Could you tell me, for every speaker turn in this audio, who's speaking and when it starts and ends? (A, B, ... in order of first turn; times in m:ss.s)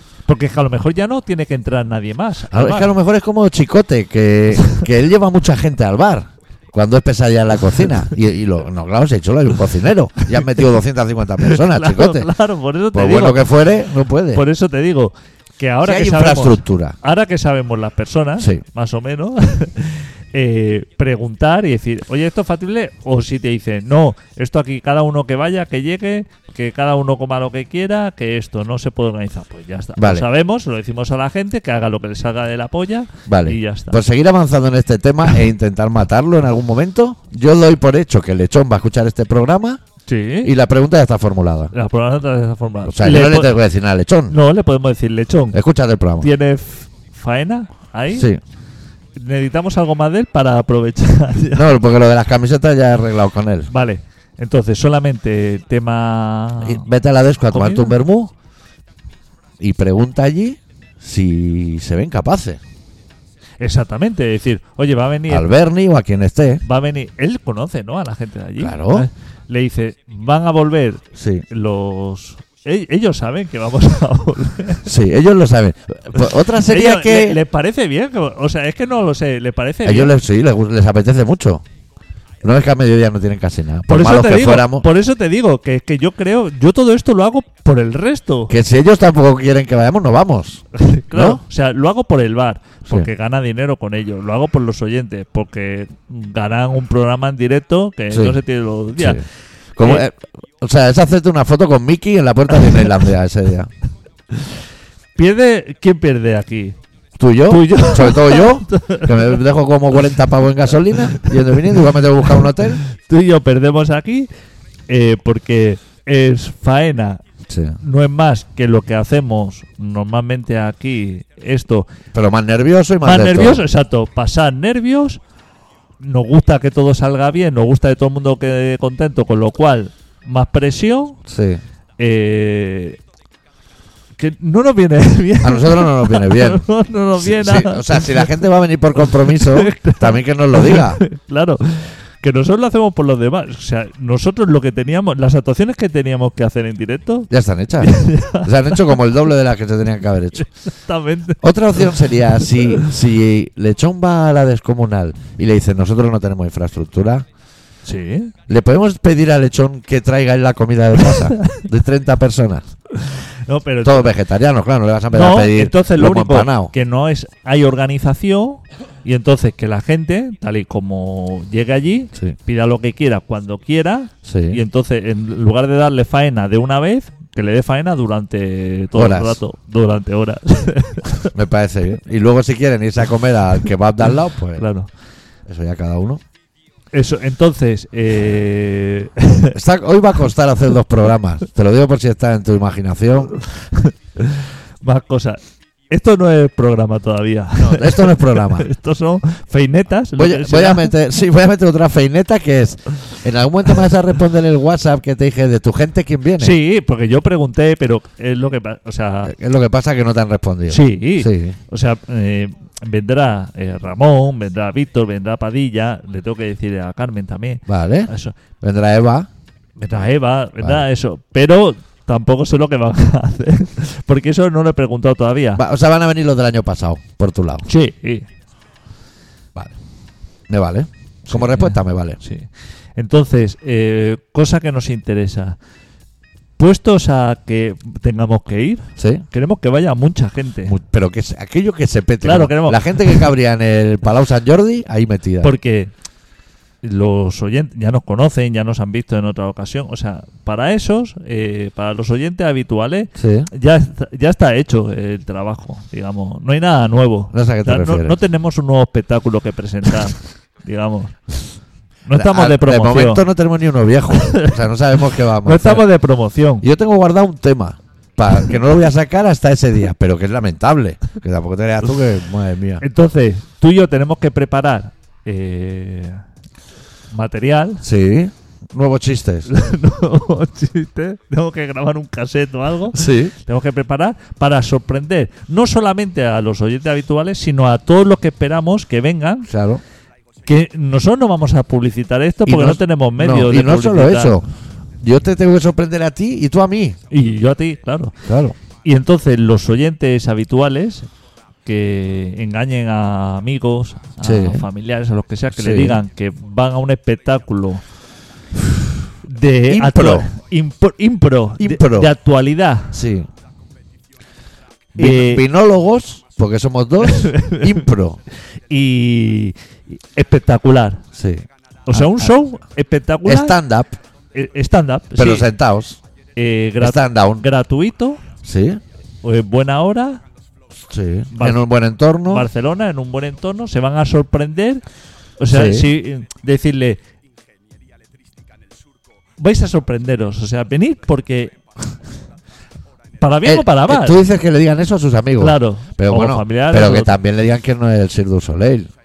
0:00.3-0:02.9 A
0:02.5-0:12.3 B
0:11.4-0:13.5 A
0:12.9-0:14.4 B
0:14.3-0:34.0 A
0:15.8-0:17.0 B
0:30.0-0:30.3 B
0:33.3-0:39.8 B
0:40.1-0:40.5 A
0:40.4-0:41.7 B
0:41.7-0:43.6 A
0:42.8-0:44.4 B
0:44.3-0:45.6 A
0:45.5-0:46.3 B
0:46.2-0:48.3 A
0:48.1-0:48.4 B
0:49.2-0:51.7 A
0:51.5-0:53.7 B
0:53.7-0:56.8 A
0:56.6-0:58.3 B
0:57.5-0:57.9 A
0:59.6-1:02.6 B
1:03.6-1:05.5 A
1:05.3-1:06.6 B
1:06.6-1:14.9 A
1:08.6-1:09.1 B
1:11.1-1:11.4 B
1:14.8-1:17.4 B
1:16.2-1:20.1 A
1:19.8-1:21.6 B
1:22.4-1:24.9 B
1:23.9-1:28.5 A
1:28.5-1:31.4 B
1:30.7-1:39.2 A
1:38.1-1:38.4 B
1:38.9-1:39.2 B
1:39.8-1:43.7 B
1:45.2-1:46.8 A
1:47.2-1:52.8 B
1:47.5-1:49.3 A
1:51.2-1:54.3 A
1:54.9-1:57.2 A
1:57.5-1:57.8 B
1:57.8-2:01.9 A
2:02.1-2:03.6 B
2:03.0-2:05.2 A
2:06.0-2:11.2 A
2:11.3-2:11.6 B
2:12.0-2:13.0 A
2:14.2-2:18.3 A
2:15.4-2:16.6 B
2:17.2-2:21.0 B
2:19.1-2:27.3 A
2:27.3-2:30.4 B
2:27.8-2:28.9 A
2:30.4-2:32.0 A
2:31.4-2:37.2 B
2:37.8-2:38.3 A
2:38.5-2:42.6 B
2:41.0-2:41.6 A
2:42.9-2:44.2 A
2:43.8-2:46.7 B
2:45.1-3:01.3 A
2:54.2-2:54.6 B
2:58.9-2:59.4 B
3:01.3-3:04.6 B
3:04.6-3:04.9 A
3:05.5-3:06.2 B
3:06.9-3:09.6 A
3:09.5-3:13.3 B
3:13.4-3:20.9 A
3:17.6-3:18.7 B
3:20.2-3:26.6 B
3:26.4-3:29.3 A
3:29.2-3:31.6 B
3:30.7-3:38.4 A
3:37.7-3:39.3 B
3:39.8-3:45.6 A
3:40.6-3:40.8 B
3:45.6-3:47.6 B
3:47.6-3:48.3 A
3:50.5-3:52.2 B
3:51.3-3:55.6 A
3:56.6-4:00.8 A
3:59.0-3:59.2 B
4:00.6-4:05.5 B
4:02.2-4:03.2 A
4:05.4-4:05.9 A
4:06.8-4:21.4 A
4:13.2-4:13.5 B
4:17.3-4:18.2 B
4:22.0-4:23.2 A
4:22.1-4:25.8 B
4:24.1-4:24.6 A
4:25.4-4:26.6 A
4:26.6-4:32.8 B
4:32.8-4:36.2 A
4:37.1-4:37.8 A
4:37.8-4:39.5 B
4:39.5-4:49.5 A
4:42.9-4:43.3 B
4:49.5-4:49.8 B
4:50.4-4:54.4 A
4:52.4-4:54.4 B
4:55.0-4:57.0 B
4:57.1-4:58.2 A
4:58.2-4:58.6 B
4:58.8-5:01.1 A
5:01.6-5:07.8 A
5:04.2-5:04.6 B
5:05.5-5:06.0 B
5:09.2-5:13.0 A
5:09.7-5:10.3 B
5:11.6-5:12.1 B
5:12.9-5:13.3 B
5:15.0-5:15.4 A
5:15.0-5:18.2 B
5:17.0-5:17.8 A
5:18.7-5:21.0 A
5:21.1-5:22.3 B
5:21.9-5:23.6 A
5:23.2-5:24.0 B
5:24.3-5:25.5 A
5:25.1-5:26.0 B
5:26.4-5:28.2 A
5:26.8-5:27.4 B
5:28.4-5:28.8 B
5:29.2-5:30.2 A
5:30.8-5:32.5 B
5:31.3-5:31.6 A
5:32.2-5:34.8 A
5:35.4-5:37.0 A
5:35.5-5:35.9 B
5:39.4-5:41.6 A
5:43.2-5:44.2 A
5:43.4-5:48.9 B
5:45.4-5:47.1 A